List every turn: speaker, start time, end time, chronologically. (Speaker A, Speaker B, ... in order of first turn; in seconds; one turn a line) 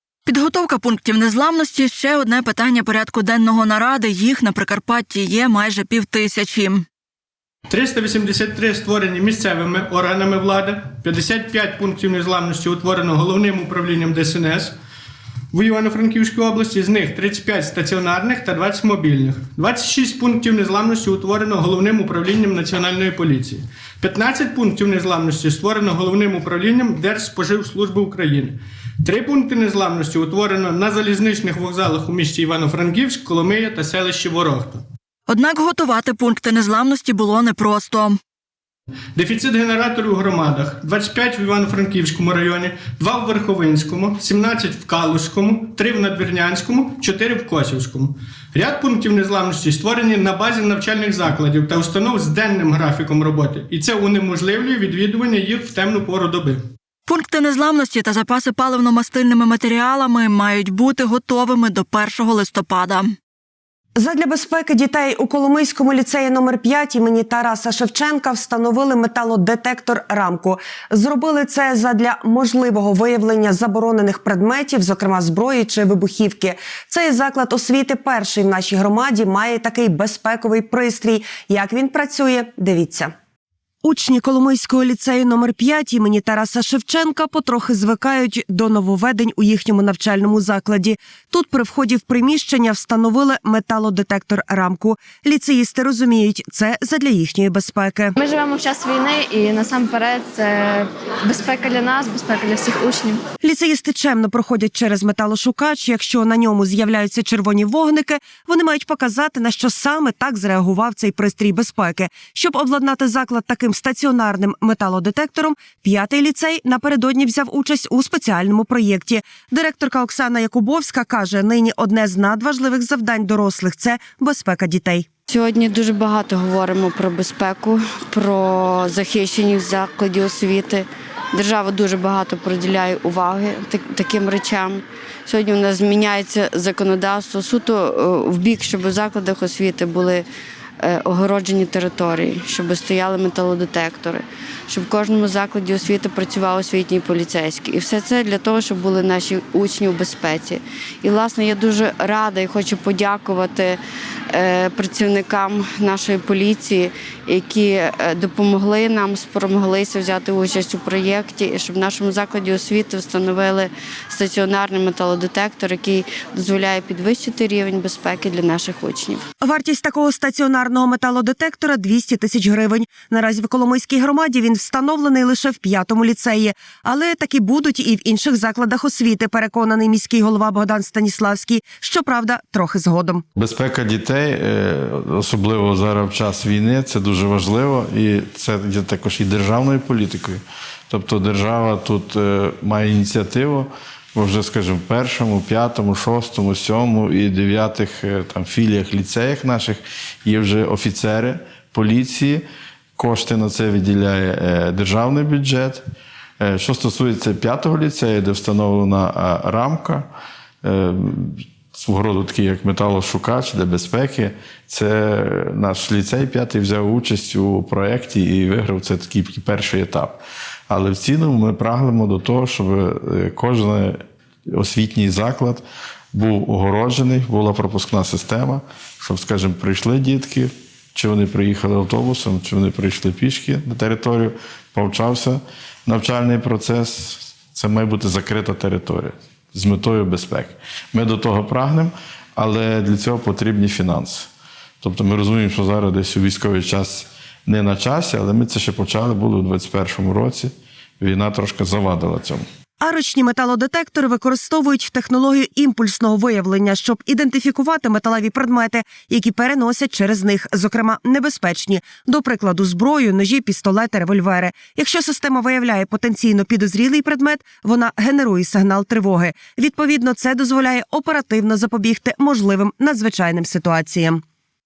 Speaker A: 0.3-6.9
Speaker B: 7.7-14.8
Speaker B: 15.5-34.9
Speaker A: 35.3-38.2
Speaker B: 39.1-56.7
Speaker A: 57.1-63.2
Speaker C: 64.0-83.1
Speaker C: 83.8-98.2
Speaker D: 98.2-103.2
Speaker C: 103.4-125.1
Speaker E: 125.3-140.2
Speaker E: 140.8-153.8
Speaker E: 154.3-169.2
Speaker C: 169.4-183.2
Speaker F: 183.4-190.4
Speaker F: 190.9-193.7
Speaker F: 194.2-202.4
Speaker F: 203.0-205.8
Speaker F: 206.4-210.0
Speaker F: 210.6-211.2
Speaker F: 211.8-220.2
Speaker F: 220.7-223.9
Speaker F: 224.5-225.6
Speaker F: 226.1-244.2
Speaker F: 244.8-250.5
Speaker F: 251.0-252.4
Speaker C: 252.8-274.2